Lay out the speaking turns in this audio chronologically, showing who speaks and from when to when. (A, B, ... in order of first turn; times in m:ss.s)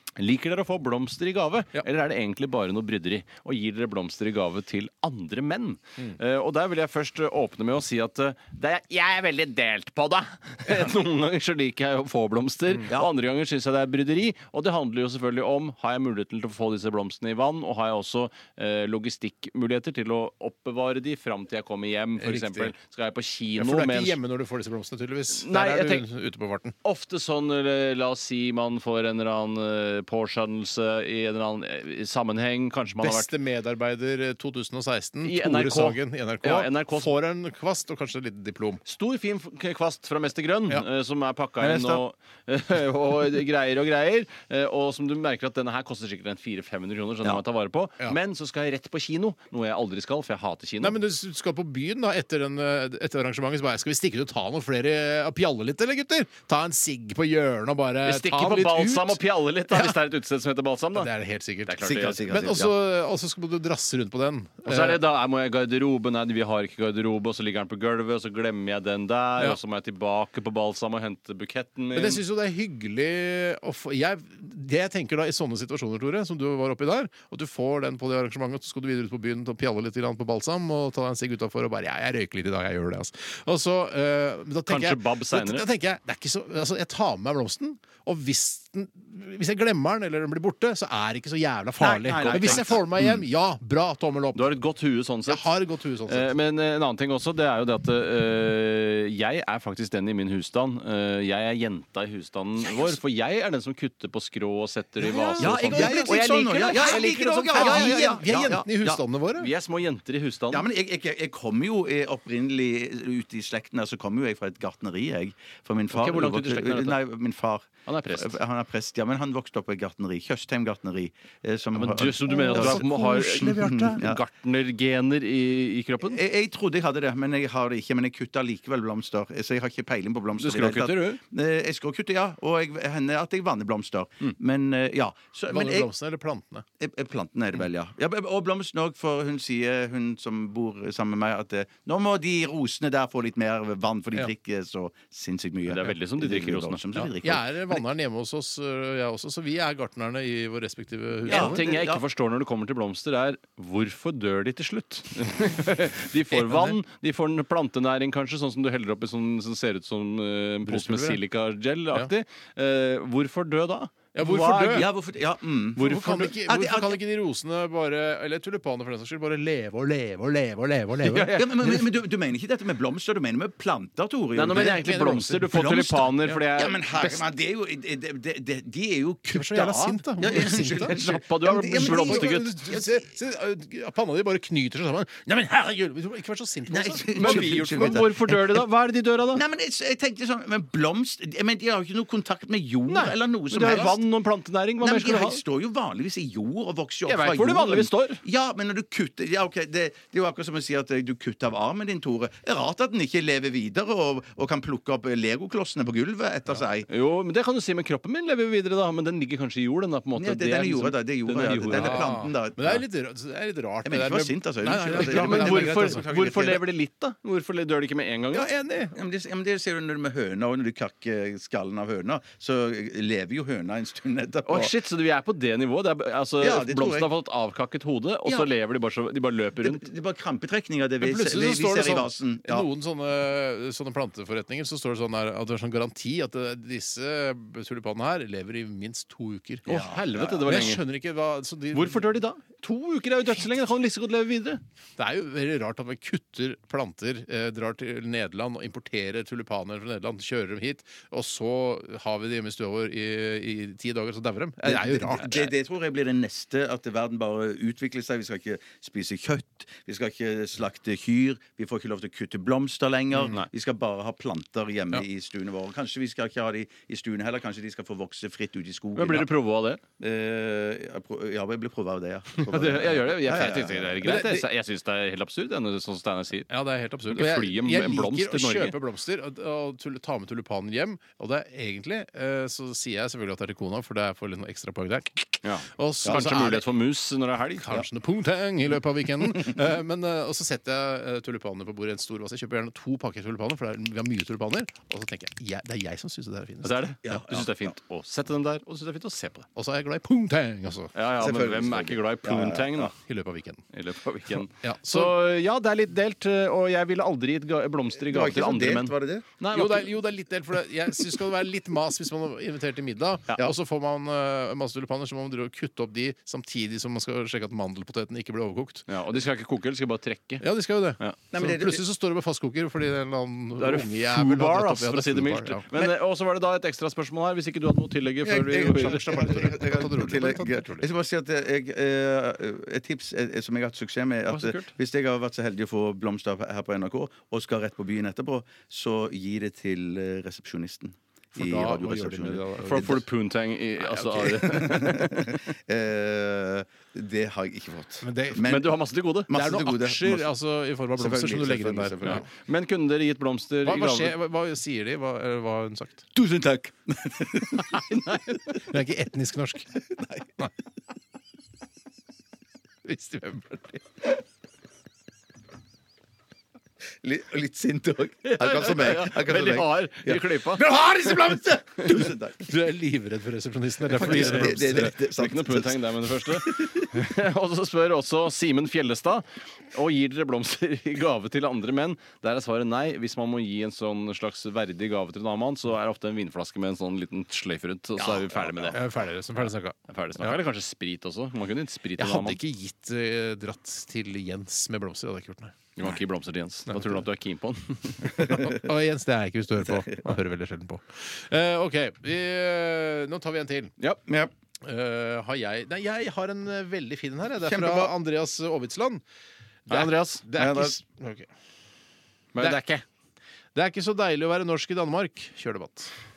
0:00.2-0:24.2 A
0:22.2-0:22.7 B
0:23.6-0:26.7 B
0:25.4-0:26.0 A
0:26.8-0:33.3 A
0:33.0-0:38.8 B
0:35.2-0:37.1 A
0:38.9-0:51.0 A
0:41.6-0:42.0 C
0:50.8-0:59.2 B
0:58.1-1:01.1 A
1:01.0-1:05.0 B
1:01.7-1:02.4 A
1:01.8-1:02.7 C
1:04.6-1:12.2 A
1:11.9-1:34.5 B
1:24.7-1:25.7 A
1:31.8-1:33.2 C
1:32.0-1:32.8 A
1:34.4-1:35.5 A
1:35.3-1:36.3 B
1:36.1-1:48.2 A
1:45.0-1:49.5 B
1:45.4-1:49.0 C
1:49.4-1:50.7 A
1:50.5-2:04.2 C
1:55.9-1:57.0 A
1:57.9-1:58.4 A
2:01.8-2:06.2 A
2:02.3-2:04.0 B
2:06.0-2:15.9 C
2:10.4-2:11.2 A
2:15.5-2:16.6 B
2:16.8-2:27.8 C
2:25.7-2:27.1 A
2:27.2-2:31.6 B
2:31.3-2:32.0 C
2:31.3-2:44.9 A
2:36.3-2:36.8 B
2:40.7-2:41.2 B
2:44.2-2:44.9 B
2:44.7-2:47.0 C
2:45.8-2:51.3 B
2:45.9-2:46.3 A
2:51.0-2:51.8 A
2:51.3-2:54.8 C
2:54.4-2:57.2 A
2:54.5-2:56.4 B
2:55.6-3:03.0 C
2:59.3-3:01.0 B
3:00.7-3:02.5 A
3:01.8-3:07.9 B
3:06.7-3:08.6 C
3:07.2-3:09.4 A
3:09.3-3:14.0 C
3:12.9-3:15.4 A
3:14.8-3:26.9 C
3:17.1-3:18.2 A
3:26.9-3:32.1 A
3:30.2-3:32.8 C
3:31.7-3:36.0 B
3:33.8-3:36.6 C
3:35.0-3:38.5 A
3:38.3-3:44.7 C
3:38.4-3:39.0 B
3:44.5-3:49.8 A
3:46.4-3:47.1 C
3:49.6-3:52.7 C
3:51.0-3:59.7 B
3:59.7-4:00.8 C
3:59.7-4:00.8 A
4:00.5-4:02.1 B
4:01.7-4:04.6 A
4:05.0-4:15.5 B
4:14.6-4:29.3 C
4:29.0-4:29.8 A
4:30.0-4:34.4 C
4:32.5-4:36.5 A
4:36.5-4:46.6 B
4:37.1-4:38.8 A
4:45.4-4:47.8 A
4:47.6-4:57.2 B
4:56.6-4:59.5 A
4:57.0-4:57.7 C
4:59.6-5:00.9 B
5:01.0-5:02.9 A
5:01.2-5:02.9 C
5:03.0-5:03.6 B
5:03.7-5:09.9 A
5:04.6-5:05.2 B
5:08.0-5:09.3 C
5:09.5-5:18.8 B
5:18.9-5:20.4 A
5:20.4-5:25.9 B
5:21.3-5:21.8 C
5:23.6-5:29.3 A
5:28.3-5:30.9 B
5:28.3-5:43.0 C
5:34.3-5:34.7 A
5:41.4-5:43.0 B
5:42.7-5:45.4 A
5:43.8-5:48.8 C
5:48.0-5:48.4 B
5:48.4-5:49.3 A
5:49.3-5:50.3 C
5:49.3-5:52.2 B
5:51.0-5:52.2 C
5:52.0-5:54.1 A
5:53.6-5:56.1 B
5:56.2-5:57.9 C
5:57.8-5:58.3 A
5:58.7-5:59.8 B
6:00.0-6:00.2 C
6:02.8-6:03.8 B
6:07.0-6:12.5 C
6:08.2-6:10.6 A
6:12.4-6:14.9 B
6:13.9-6:16.9 C
6:14.0-6:28.8 A
6:28.0-6:28.8 C
6:28.7-6:30.4 B
6:29.9-6:32.4 A
6:32.0-6:35.6 B
6:35.8-6:38.2 A
6:36.7-6:37.0 B
6:38.2-6:43.7 B
6:38.2-6:38.6 C
6:39.6-6:40.0 C
6:44.6-6:49.0 B
6:47.4-6:47.9 C
6:49.7-6:51.3 B
6:49.7-6:50.2 A
6:50.4-6:50.8 C
6:52.4-6:52.7 A
6:52.4-6:52.8 B
6:53.6-6:55.9 B